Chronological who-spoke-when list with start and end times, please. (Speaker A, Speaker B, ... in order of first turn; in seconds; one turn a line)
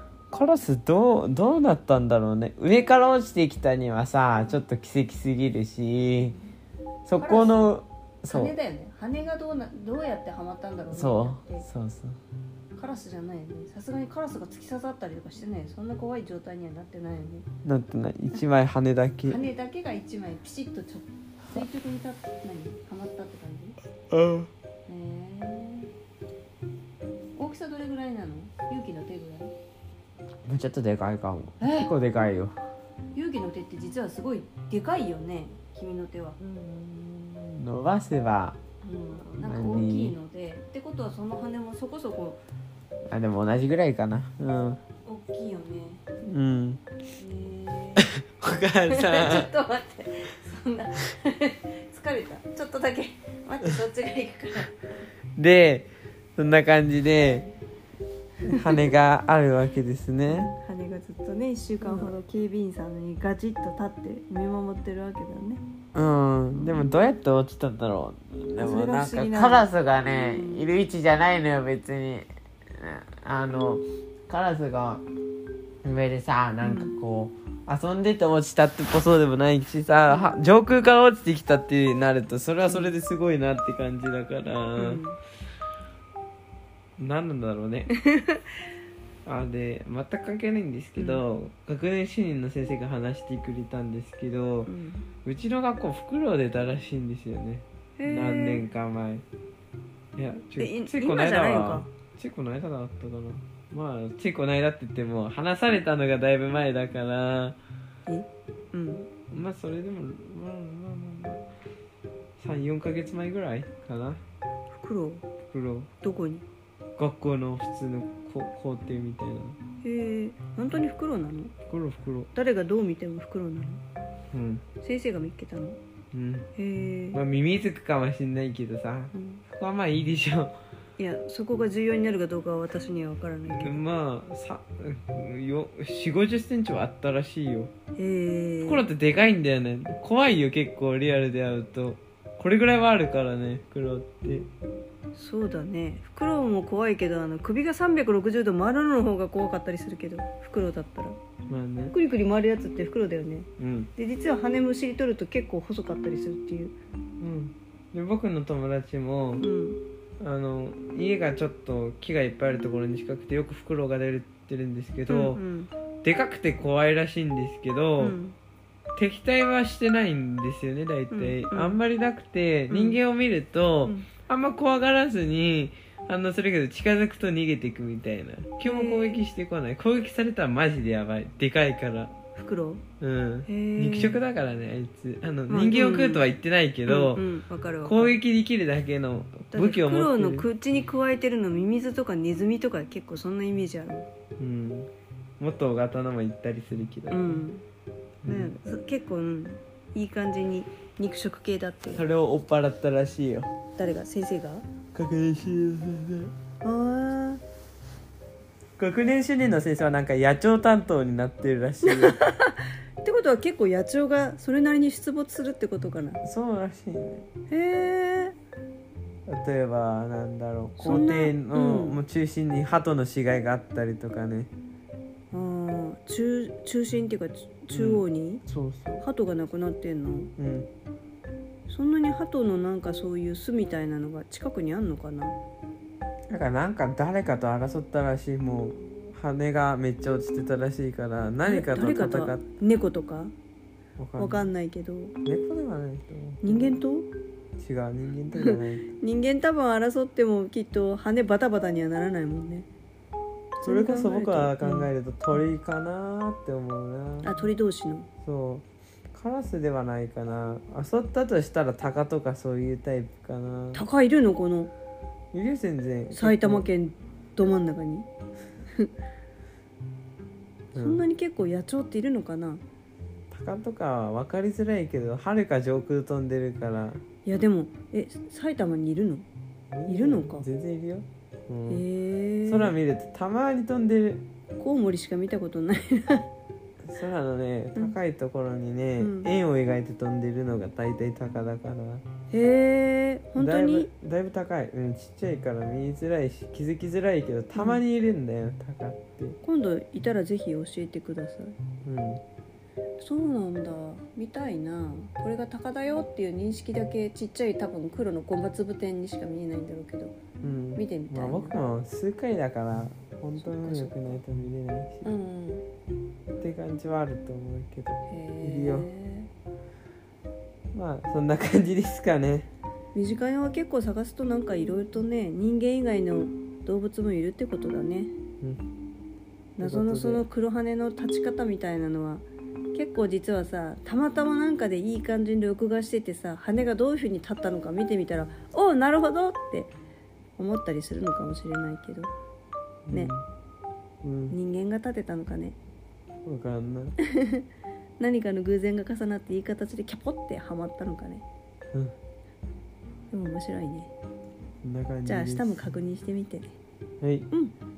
Speaker A: 0.3-6.4
Speaker A: 7.1-8.5
Speaker B: 7.2-7.7
Speaker B: 8.3-11.7
Speaker A: 10.9-12.2
Speaker B: 12.8-17.5
Speaker A: 17.6-19.4
Speaker B: 19.2-23.8
Speaker A: 24.1-24.5
Speaker B: 24.9-25.9
Speaker B: 27.4-29.5
Speaker A: 30.5-32.5
Speaker B: 31.6-31.9
Speaker B: 33.1-36.9
Speaker A: 36.5-38.6
Speaker B: 38.8-42.4
Speaker A: 39.4-40.1
Speaker A: 43.1-44.8
Speaker B: 45.0-46.0
Speaker A: 46.2-46.8
Speaker B: 47.2-48.1
Speaker A: 48.0-49.5
Speaker B: 48.9-54.8
Speaker A: 55.4-57.5
Speaker B: 58.5-58.9
Speaker A: 58.5-60.5
Speaker B: 60.3-65.6
Speaker A: 61.8-62.1
Speaker A: 65.9-75.0
Speaker B: 66.5-67.0
Speaker B: 68.6-70.7
Speaker A: 75.8-85.0
Speaker B: 76.6-77.0
Speaker B: 80.1-80.3
Speaker B: 82.7-82.9
Speaker B: 84.8-85.2
Speaker A: 87.0-87.9
Speaker B: 88.1-88.4
Speaker A: 89.2-94.7
Speaker B: 91.0-91.2
Speaker B: 94.7-95.1
Speaker A: 95.2-99.2
Speaker B: 98.0-98.7
Speaker A: 100.2-107.6
Speaker B: 100.6-101.9
Speaker B: 108.1-109.1
Speaker A: 109.3-111.5
Speaker A: 112.4-114.2
Speaker B: 114.8-115.3
Speaker A: 115.5-115.9
Speaker B: 116.0-116.5
Speaker A: 117.0-119.6
Speaker B: 119.8-121.5
Speaker A: 121.7-122.3
Speaker B: 122.3-123.8
Speaker A: 124.3-124.6
Speaker B: 124.8-125.8
Speaker A: 126.1-126.5
Speaker B: 126.6-127.2
Speaker A: 127.1-130.6
Speaker B: 129.1-129.4
Speaker B: 131.0-133.8
Speaker A: 133.4-137.7
Speaker B: 138.0-138.9
Speaker A: 138.7-144.5
Speaker B: 145.2-151.2
Speaker A: 151.5-151.9
Speaker B: 151.9-156.8
Speaker A: 153.6-153.9
Speaker A: 157.2-159.4
Speaker B: 159.4-159.8
Speaker A: 160.2-165.4
Speaker B: 165.1-165.7
Speaker A: 166.0-168.2
Speaker B: 168.0-168.4
Speaker A: 169.0-182.1
Speaker B: 171.1-171.8
Speaker B: 172.7-173.0
Speaker B: 178.6-179.2
Speaker B: 182.3-182.8
Speaker A: 183.0-187.2
Speaker B: 183.5-184.2
Speaker B: 185.5-186.3
Speaker B: 186.9-188.2
Speaker A: 187.8-190.5
Speaker B: 189.5-194.1
Speaker A: 194.4-197.4
Speaker B: 197.1-197.6
Speaker A: 198.2-198.5
Speaker B: 198.3-202.0
Speaker A: 201.9-203.5
Speaker B: 203.8-204.7
Speaker A: 204.9-206.3
Speaker B: 206.6-207.4
Speaker A: 208.8-212.2
Speaker B: 211.8-216.2
Speaker A: 216.2-217.3
Speaker B: 217.5-218.3
Speaker A: 219.3-224.5
Speaker B: 220.8-222.0
Speaker B: 225.3-228.4
Speaker A: 227.7-229.0
Speaker B: 229.0-230.3
Speaker A: 230.4-230.7
Speaker B: 231.7-235.4
Speaker A: 236.3-242.4
Speaker B: 241.4-243.3
Speaker A: 244.0-244.5
Speaker B: 244.2-245.2
Speaker A: 245.3-246.8
Speaker B: 246.4-247.1
Speaker A: 247.6-248.9
Speaker B: 248.4-252.7
Speaker B: 253.6-255.4
Speaker A: 253.6-257.3
Speaker B: 257.2-258.1
Speaker A: 258.2-263.8
Speaker B: 263.7-264.7
Speaker A: 265.3-266.7
Speaker B: 266.1-268.1
Speaker A: 270.7-271.0
Speaker B: 270.8-272.6
Speaker A: 273.3-277.0
Speaker B: 277.2-279.3
Speaker A: 279.7-281.8
Speaker B: 279.9-280.4
Speaker B: 281.7-282.8
Speaker A: 282.5-284.2
Speaker B: 284.6-286.3
Speaker A: 286.8-292.0
Speaker B: 289.0-289.3
Speaker B: 292.3-293.9
Speaker A: 293.4-299.4
Speaker B: 297.6-297.8
Speaker B: 299.4-301.6
Speaker A: 301.8-302.2
Speaker B: 303.0-310.1
Speaker A: 310.4-315.1
Speaker B: 310.8-311.6
Speaker B: 313.4-313.9
Speaker B: 315.1-315.6
Speaker A: 316.4-318.9
Speaker B: 318.1-319.3
Speaker A: 320.7-322.5
Speaker B: 322.9-328.1
Speaker B: 329.6-339.7
Speaker A: 329.6-330.3
Speaker B: 340.4-342.1
Speaker A: 342.9-343.2
Speaker A: 344.0-344.4
Speaker B: 344.3-345.6
Speaker A: 346.2-346.9
Speaker B: 347.1-347.4
Speaker B: 348.0-351.2
Speaker B: 353.1-353.9
Speaker A: 354.6-355.6
Speaker B: 355.1-356.5
Speaker A: 357.0-357.3